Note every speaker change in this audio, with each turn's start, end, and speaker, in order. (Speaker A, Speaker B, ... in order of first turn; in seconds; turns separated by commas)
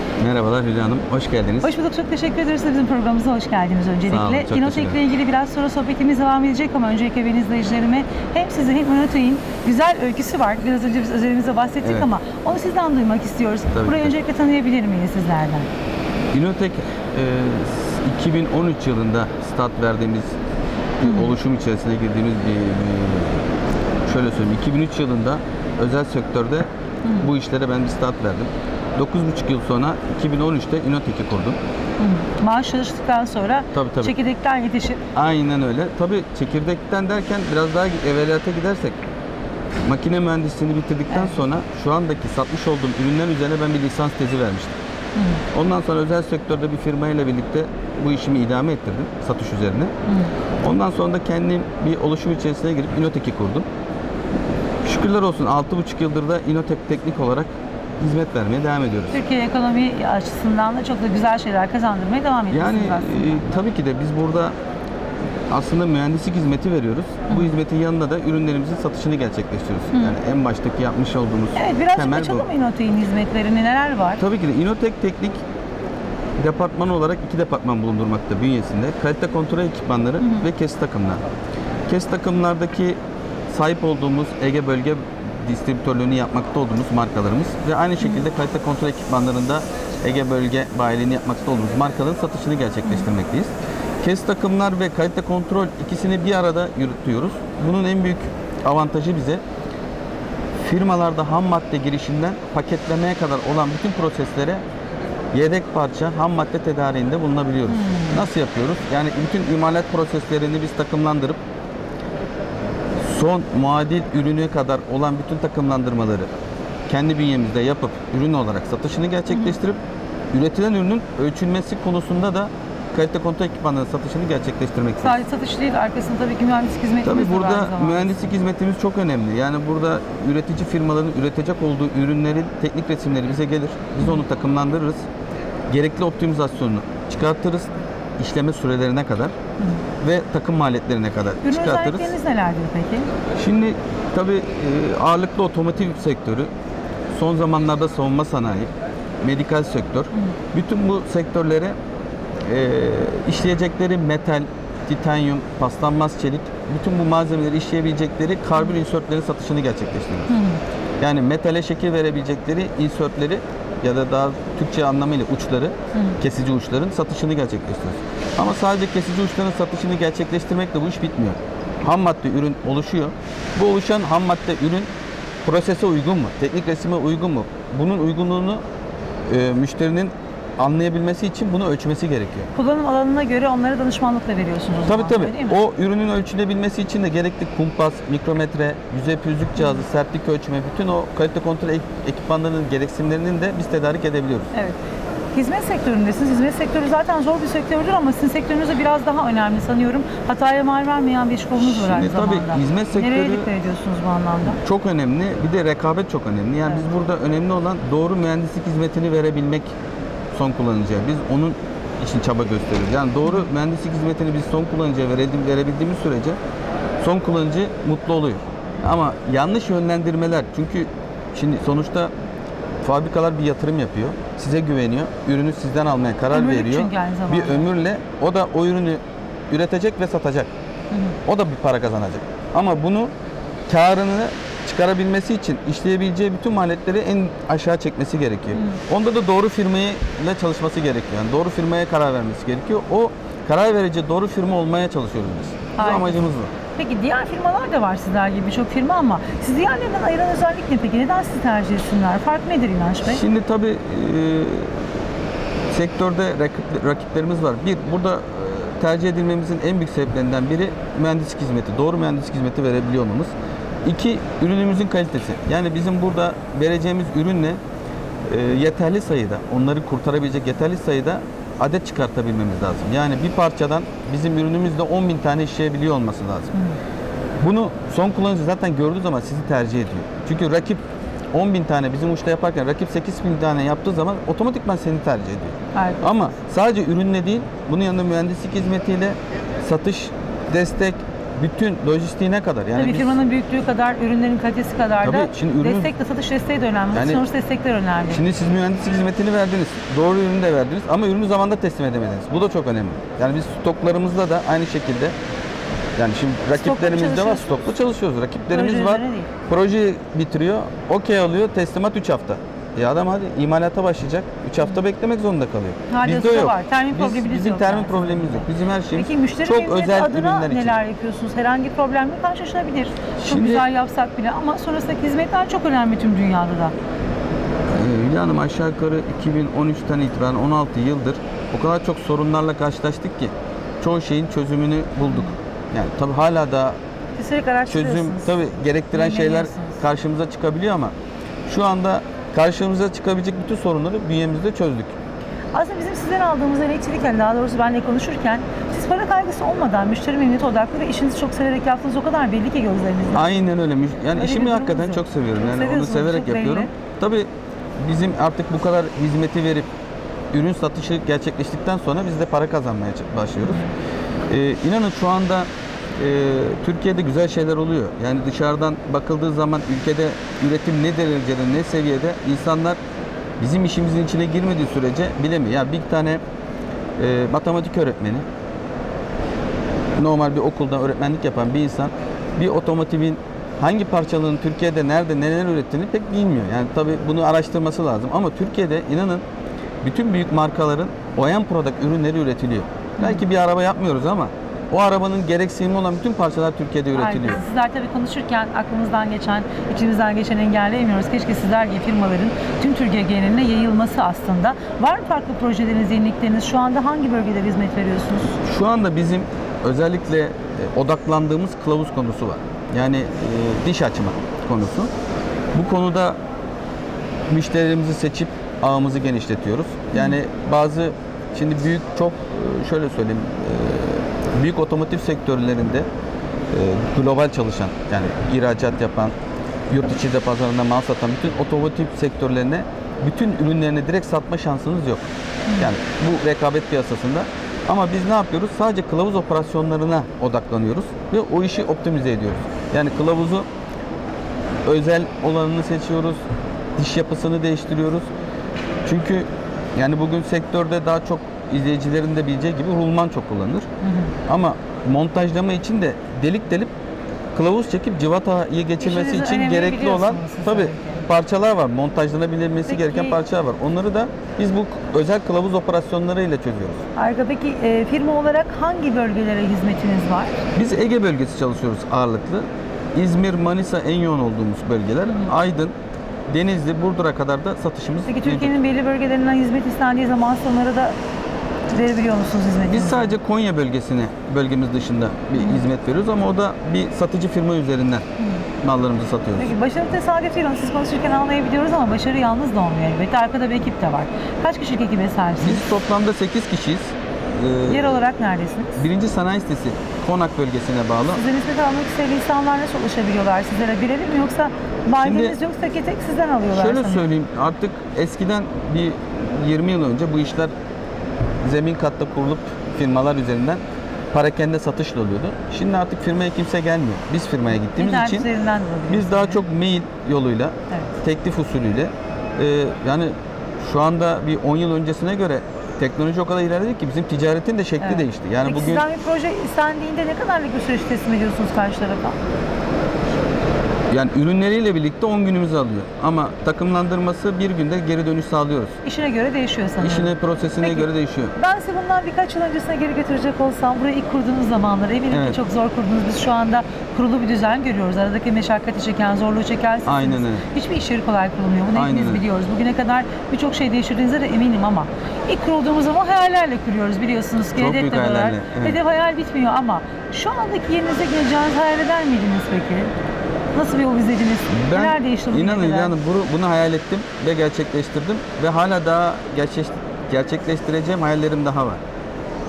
Speaker A: 0.2-1.7, Speaker B: 1.6-15.7, Speaker A: 4.1-5.0, Speaker A: 11.8-12.1, Speaker A: 13.7-14.1, Speaker A: 16.3-20.4, Speaker A: 21.0-23.5, Speaker B: 21.0-21.3, Speaker A: 24.1-26.7, Speaker A: 27.2-31.6, Speaker B: 32.0-35.0, Speaker A: 33.7-34.1, Speaker A: 35.1-39.0, Speaker A: 39.9-44.7, Speaker B: 41.1-41.4, Speaker B: 45.2-45.4, Speaker A: 45.5-49.9, Speaker B: 50.1-50.3, Speaker A: 50.6-53.7, Speaker A: 54.8-59.2, Speaker B: 59.1-63.4, Speaker A: 62.5-64.6, Speaker A: 65.5-72.5, Speaker B: 71.6-74.2, Speaker A: 74.2-75.4, Speaker A: 76.4-81.2, Speaker B: 80.2-80.5, Speaker A: 81.9-83.0, Speaker A: 83.5-93.5, Speaker A: 94.0-99.4, Speaker A: 100.6-104.6, Speaker A: 105.3-111.4, Speaker B: 107.7-108.3, Speaker A: 113.0-116.3, Speaker A: 116.9-119.8, Speaker A: 120.3-125.2, Speaker B: 125.0-128.3, Speaker A: 127.0-135.1, Speaker A: 135.7-139.3, Speaker A: 140.0-142.1, Speaker B: 141.4-143.1, Speaker A: 143.4-146.5, Speaker A: 147.1-148.7, Speaker A: 149.2-151.8, Speaker A: 152.4-160.3, Speaker B: 160.3-160.6, Speaker A: 161.0-174.9, Speaker A: 175.4-178.6, Speaker A: 179.3-182.5, Speaker B: 182.6-185.6, Speaker A: 184.9-194.5, Speaker B: 194.5-194.8, Speaker B: 195.3-204.6, Speaker A: 201.6-203.5, Speaker A: 204.6-209.7, Speaker A: 210.3-216.4, Speaker A: 217.0-222.1, Speaker A: 222.8-230.5, Speaker B: 226.3-227.7, Speaker B: 230.9-231.2, Speaker A: 231.3-233.1, Speaker A: 233.7-246.5, Speaker B: 238.5-238.8, Speaker B: 245.8-246.2, Speaker B: 246.8-253.2, Speaker A: 253.1-254.9, Speaker A: 255.7-263.3, Speaker A: 263.9-267.6, Speaker A: 268.3-276.5, Speaker A: 277.4-280.8, Speaker A: 281.3-293.2, Speaker B: 285.8-286.0, Speaker B: 292.8-298.2, Speaker A: 295.0-295.9, Speaker A: 296.9-297.2, Speaker A: 298.1-305.1, Speaker A: 306.0-320.8, Speaker B: 306.5-307.7, Speaker B: 308.5-309.3, Speaker B: 315.9-326.7, Speaker A: 323.2-323.6, Speaker A: 327.7-336.8, Speaker B: 337.2-339.8, Speaker A: 337.7-340.9, Speaker A: 341.5-344.9, Speaker B: 345.5-353.5, Speaker A: 353.1-357.3, Speaker B: 354.1-356.7, Speaker A: 357.8-359.7, Speaker A: 360.3-363.6, Speaker A: 364.3-372.8, Speaker A: 373.4-376.2, Speaker A: 377.0-378.3, Speaker A: 380.0-389.2, Speaker A: 389.8-397.4, Speaker B: 396.9-408.3, Speaker A: 408.4-414.9, Speaker A: 415.5-416.2, Speaker A: 417.3-425.9, Speaker A: 426.5-429.1, Speaker A: 429.7-435.1, Speaker A: 435.6-443.5, Speaker A: 444.6-446.2, Speaker A: 446.8-448.1, Speaker A: 448.9-453.7, Speaker B: 453.8-454.1, Speaker A: 454.3-456.7, Speaker A: 457.4-466.8, Speaker B: 458.8-461.0, Speaker B: 462.7-463.2, Speaker B: 467.0-470.4, Speaker A: 470.6-475.7, Speaker A: 476.3-478.6, Speaker B: 478.1-481.0, Speaker B: 481.7-483.1, Speaker A: 482.7-488.1, Speaker B: 485.4-485.6, Speaker A: 488.6-489.5, Speaker B: 489.4-495.6, Speaker A: 495.4-498.0, Speaker B: 497.7-498.8, Speaker A: 498.8-501.2, Speaker B: 501.1-507.1, Speaker A: 505.0-505.4, Speaker A: 506.5-510.5, Speaker A: 511.4-518.3, Speaker B: 517.8-519.4, Speaker A: 518.9-528.9, Speaker B: 527.8-532.2, Speaker A: 533.9-538.8, Speaker B: 538.8-562.9, Speaker A: 539.8-541.4, Speaker A: 545.1-545.4, Speaker A: 549.9-550.5, Speaker A: 551.7-552.2, Speaker A: 557.5-558.8, Speaker B: 563.5-565.9, Speaker A: 564.5-571.8